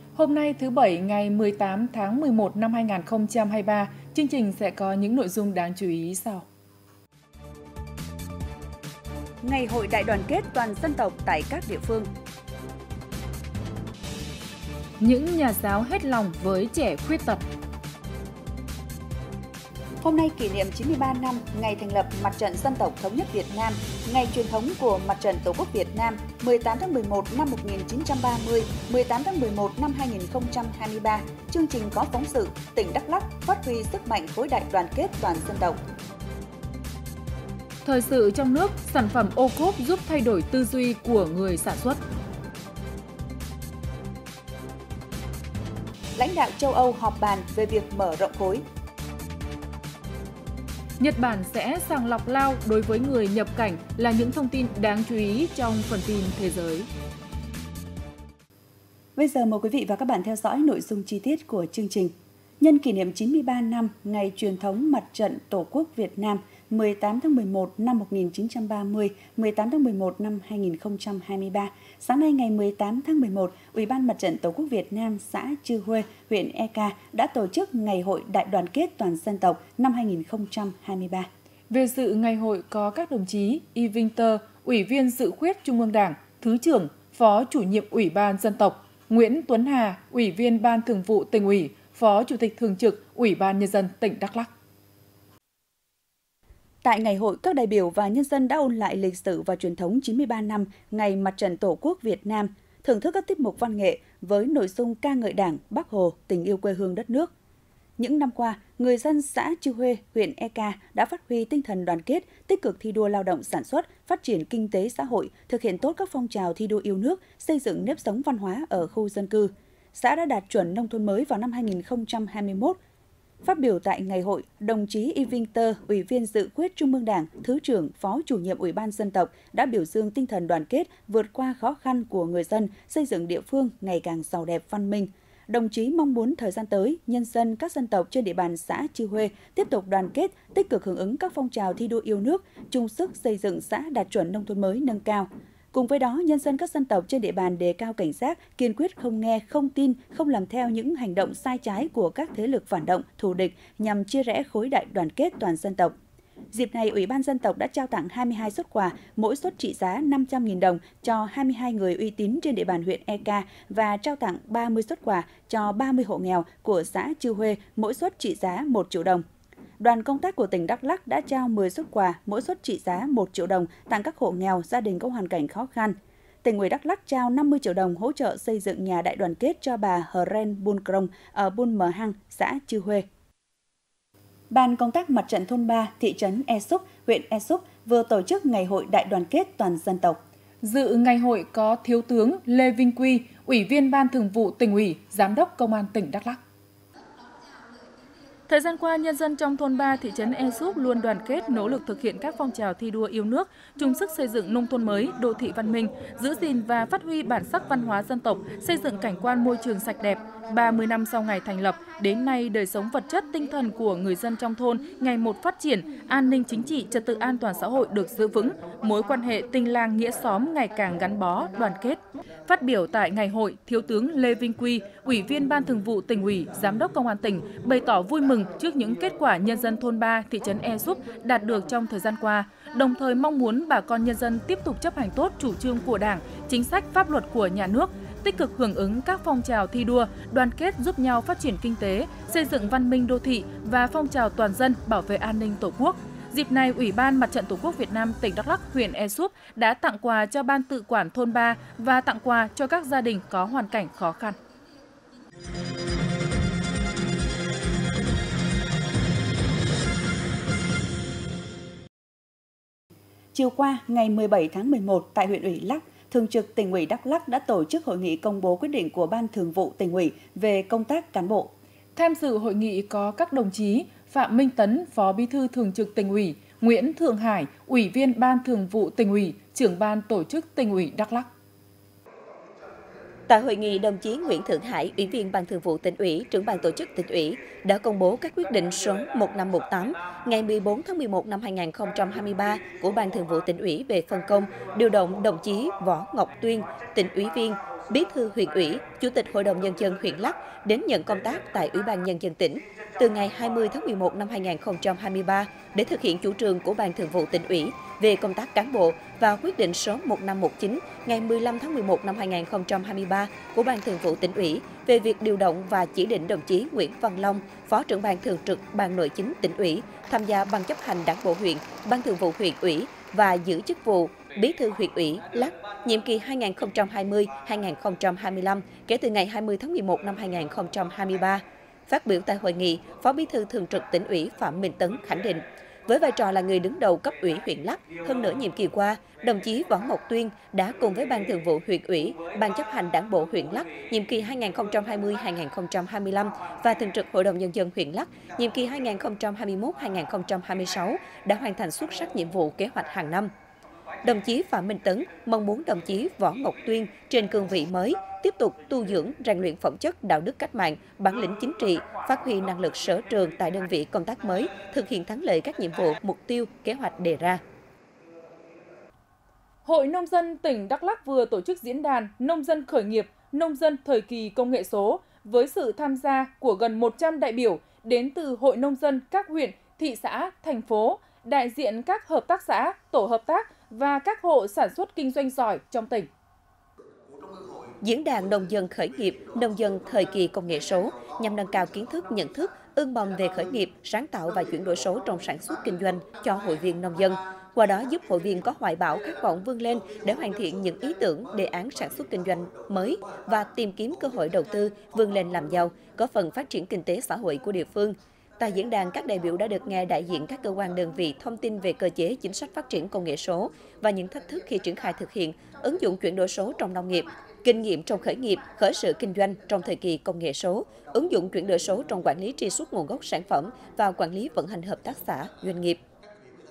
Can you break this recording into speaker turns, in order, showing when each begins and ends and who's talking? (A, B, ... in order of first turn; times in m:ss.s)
0:00.1-0:06.4 A
0:09.4-0:12.1 B
0:15.0-0:17.4 A
0:20.0-0:35.8 B
0:37.8-0:42.0 A
0:46.2-0:48.6 B
0:51.0-0:56.9 A
0:59.2-1:21.3 B
1:21.7-1:34.5 A
1:36.8-1:47.3 B
1:48.0-2:02.8 B
2:03.4-2:35.9 B
2:36.5-2:49.2 B
2:49.8-3:03.0 B
3:04.5-3:10.2 B
3:10.6-3:16.4 A
3:18.5-4:14.4 A
4:23.3-4:31.5 B
4:32.0-4:41.3 A
4:43.3-5:53.3 C
5:54.0-6:07.4 C
6:09.6-6:26.1 A
6:27.8-7:05.8 C